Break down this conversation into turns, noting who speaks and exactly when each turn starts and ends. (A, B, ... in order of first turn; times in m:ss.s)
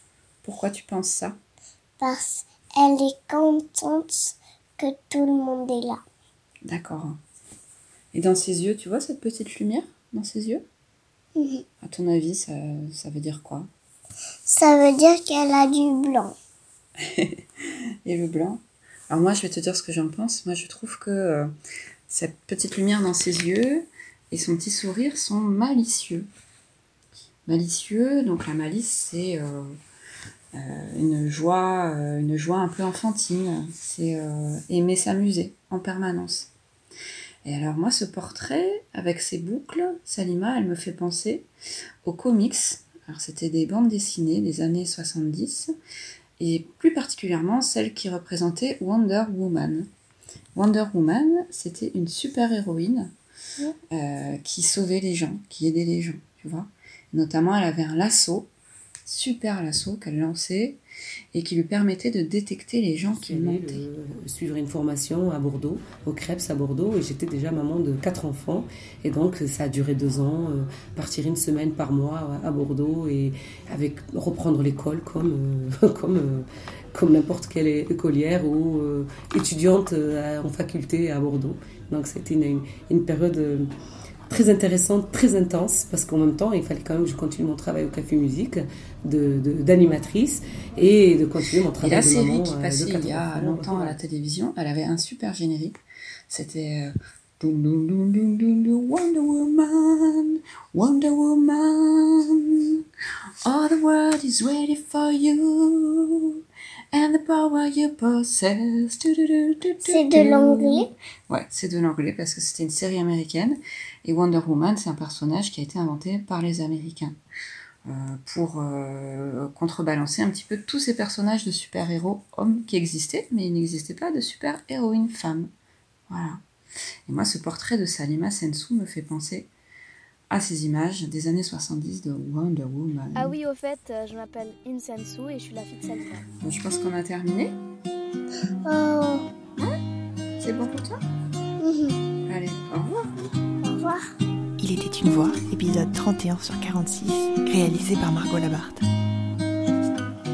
0:00.4-0:01.4 A
0:02.0-0:06.0 B
0:06.6-0:07.2 A
0:08.1-0:10.6 A
0:11.4-0:11.6 B
0:11.8-0:13.7 A
0:14.5-0:16.3 B
0:17.0-0:17.4 A
0:18.0-0:21.5 A
0:22.1-0:26.3 A
0:27.5-0:29.8 A
0:30.5-0:36.5 A
0:37.4-0:41.5 A
0:42.0-0:45.7 A
0:46.4-0:49.9 A
0:50.6-0:53.1 A
0:53.9-0:58.5 A
0:59.0-1:00.8 A
1:01.3-1:03.8 A
1:03.1-1:23.7 C
1:24.3-1:34.0 C
1:31.8-1:35.8 A
1:36.3-1:42.8 A
1:43.4-1:46.4 A
1:46.9-1:57.2 A
1:49.9-1:50.9 B
1:57.8-2:05.5 A
2:06.1-2:06.4 A
2:07.1-2:09.5 A
2:10.3-2:13.4 A
2:13.2-2:16.2 D
2:16.4-2:17.6 A
2:18.6-2:19.2 B
2:20.4-2:21.0 A
2:21.6-2:22.0 B
2:22.3-2:23.1 A
2:23.6-2:24.1 B
2:24.6-2:28.8 E